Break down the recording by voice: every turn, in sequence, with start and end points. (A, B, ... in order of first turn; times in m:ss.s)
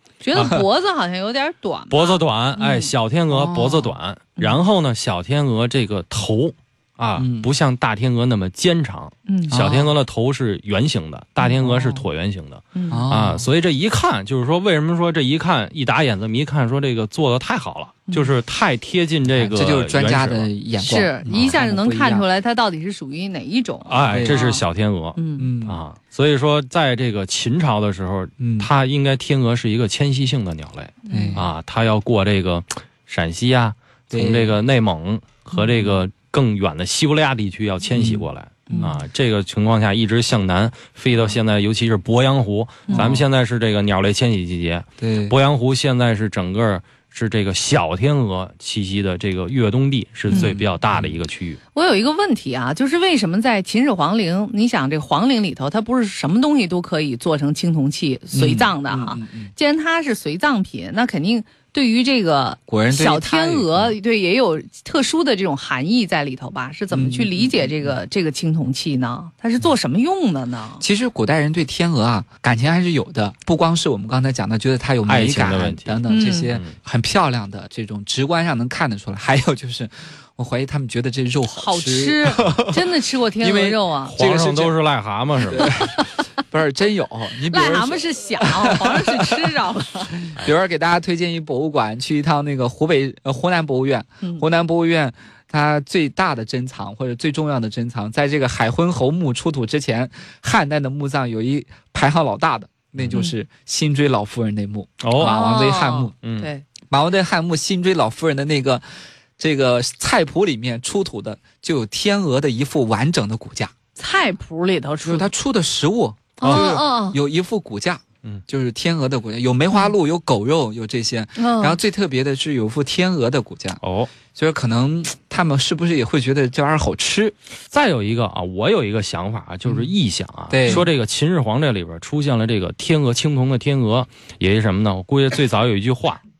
0:00.2-0:02.9 A
0:00.3-0:00.6 B
0:01.9-0:20.5 C
0:03.3-0:03.9 B
0:07.2-0:07.5 B
0:09.3-0:09.6 A
0:09.5-0:09.9 B
0:11.4-0:12.0 A
0:12.7-0:13.0 A
0:12.9-0:13.5 B
0:19.3-0:22.2 B
0:20.8-0:24.6 A
0:23.8-0:51.6 C
0:24.1-0:24.4 B
0:25.2-0:25.5 A
0:25.4-0:25.8 B
0:28.4-0:28.7 B
0:31.0-0:31.4 A
0:31.1-0:31.5 B
0:34.1-0:34.6 B
0:35.6-0:36.0 B
0:37.9-0:38.2 B
0:38.7-0:39.0 A
0:41.1-0:41.4 B
0:42.9-0:43.2 B
0:45.0-0:45.4 B
0:50.3-0:50.5 A
0:50.3-0:51.2 B
0:51.7-1:10.8 A
0:58.3-0:59.5 B
1:02.7-1:03.9 B
1:06.9-1:08.0 B
1:10.8-1:22.8 B
1:15.0-1:16.7 C
1:16.1-1:16.5 A
1:21.5-1:24.1 A
1:23.4-1:24.8 B
1:24.1-1:25.8 C
1:25.5-1:29.6 B
1:25.6-1:26.1 A
1:27.5-1:30.3 A
1:30.2-1:46.1 B
1:45.0-1:45.4 C
1:45.2-1:46.6 A
1:46.2-1:46.5 C
1:46.9-1:48.8 B
1:49.4-1:53.7 B
1:54.0-1:55.3 A
1:55.0-2:03.8 B
1:56.4-1:57.2 A
1:56.4-1:56.7 C
2:01.4-2:01.8 A
2:03.8-2:04.1 C
2:04.3-2:07.3 B
2:07.7-2:16.2 C
2:10.5-2:10.9 B